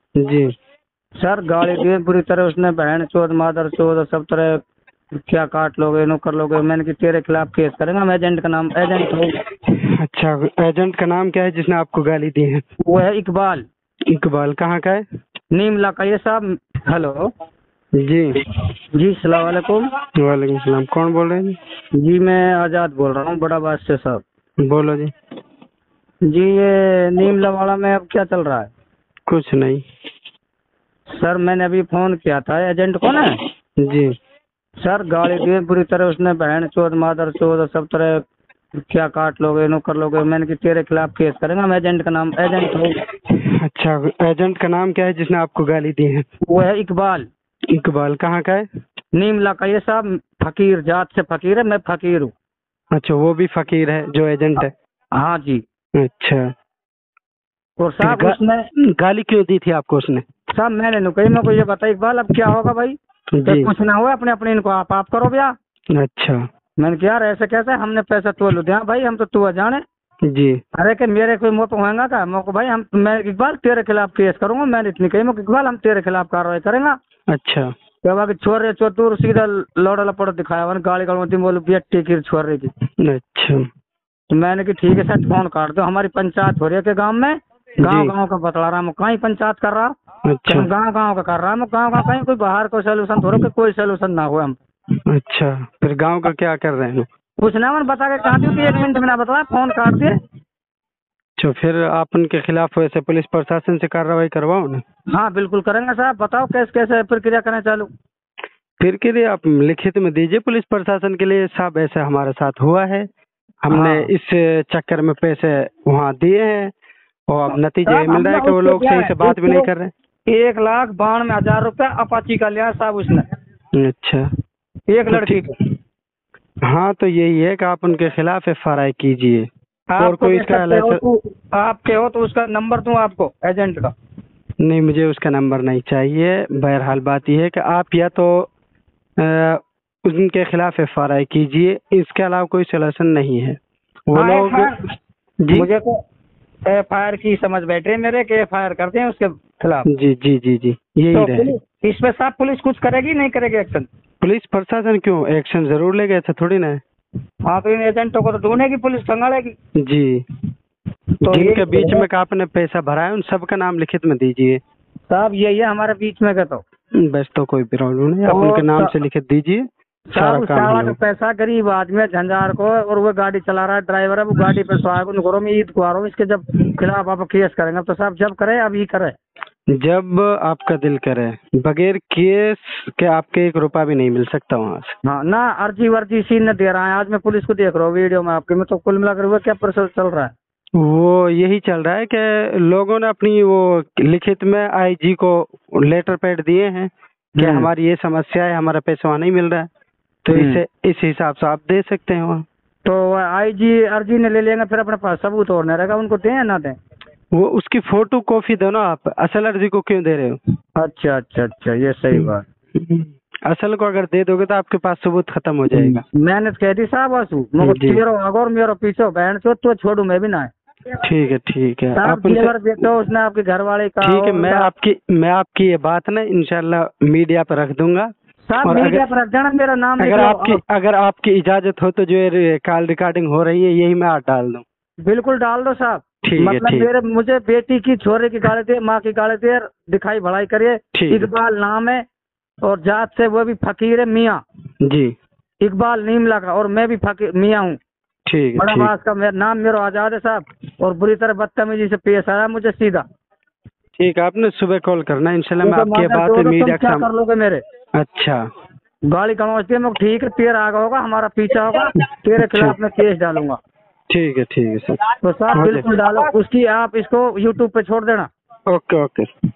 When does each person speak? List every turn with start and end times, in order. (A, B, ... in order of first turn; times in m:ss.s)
0:00.2-0:00.5 A
0:01.2-0:04.5 B
0:05.3-0:09.4 B
0:09.8-0:12.6 A
0:12.8-0:13.6 B
0:14.1-0:15.0 A
0:15.5-0:17.3 B
0:18.0-0:18.4 A
0:19.0-0:19.9 B
0:20.2-0:21.6 A
0:22.0-0:24.2 B
0:24.6-0:25.1 A
0:26.3-0:28.7 B
0:29.3-0:29.8 A
0:31.1-0:33.4 B
0:33.8-0:34.1 A
0:34.8-0:38.2 B
0:38.9-0:43.0 B
0:43.3-0:46.2 A
0:46.5-0:47.3 B
0:47.7-0:48.7 A
0:49.1-0:52.3 B
0:52.9-0:54.7 A
0:55.1-0:55.6 B
0:56.0-0:56.5 A
0:57.8-0:58.6 B
0:58.0-0:58.4 A
0:59.0-1:00.2 A
1:00.5-1:05.5 B
1:03.3-1:03.7 A
1:05.9-1:06.4 A
1:06.8-1:09.8 B
1:10.2-1:10.6 A
1:10.8-1:17.0 B
1:17.3-1:17.7 A
1:18.0-1:22.7 B
1:23.0-1:23.6 A
1:24.3-1:29.9 B
1:27.8-1:28.1 A
1:30.2-1:30.7 A
1:30.5-1:34.6 B
1:35.1-1:37.0 A
1:37.4-1:40.2 B
1:38.4-1:38.7 A
1:41.4-1:44.8 A
1:45.1-1:47.9 B
1:48.8-1:53.0 A
1:53.6-1:56.7 A
1:53.7-1:54.1 B
1:57.3-1:59.9 A
1:57.8-1:59.7 B
2:00.3-2:03.2 B
2:03.7-2:04.2 A
2:04.9-2:05.5 B
2:05.1-2:05.5 A
2:06.6-2:09.5 A
2:09.9-2:13.9 B
2:10.0-2:11.0 A
2:14.6-2:18.5 A
2:19.2-2:24.7 A
2:24.2-2:24.7 B
2:25.4-2:25.7 A
2:25.5-2:26.0 B
2:26.7-2:29.8 B
2:29.9-2:31.5 A
2:31.1-2:33.9 B
2:34.2-2:36.8 A
2:37.4-2:39.5 B
2:39.8-2:40.2 A
2:41.2-2:42.0 B
2:41.3-2:44.6 A
2:45.1-2:46.6 B
2:47.0-2:51.0 A
2:48.3-2:48.9 B
2:50.1-2:59.2 B
2:59.7-3:04.9 A
3:05.0-3:10.3 B
3:10.8-3:19.7 A
3:17.4-3:17.7 B
3:20.2-3:22.4 A
3:20.3-3:20.6 B
3:22.8-3:26.8 B
3:27.3-3:30.4 A
3:30.8-3:32.4 B
3:32.1-3:36.0 A
3:35.7-3:40.5 B
3:37.6-3:38.0 A
3:41.0-3:42.8 A
3:41.9-3:44.7 B
3:44.0-3:48.1 A
3:48.5-3:50.6 B
3:48.6-3:49.0 A
3:50.0-3:54.6 A
3:55.0-4:02.0 B
3:56.2-3:56.9 A
4:00.9-4:01.3 A
4:02.6-4:04.4 B
4:04.8-4:05.2 A
4:05.6-4:07.8 B
4:08.3-4:08.9 A
4:08.6-4:13.0 B
4:14.0-4:17.1 A
4:15.6-4:17.6 B
4:18.0-4:18.4 A
4:19.1-4:23.6 B
4:22.0-4:22.8 A
4:24.1-4:25.0 A
4:25.2-4:28.3 B
4:25.5-4:25.9 A
4:28.7-4:29.3 A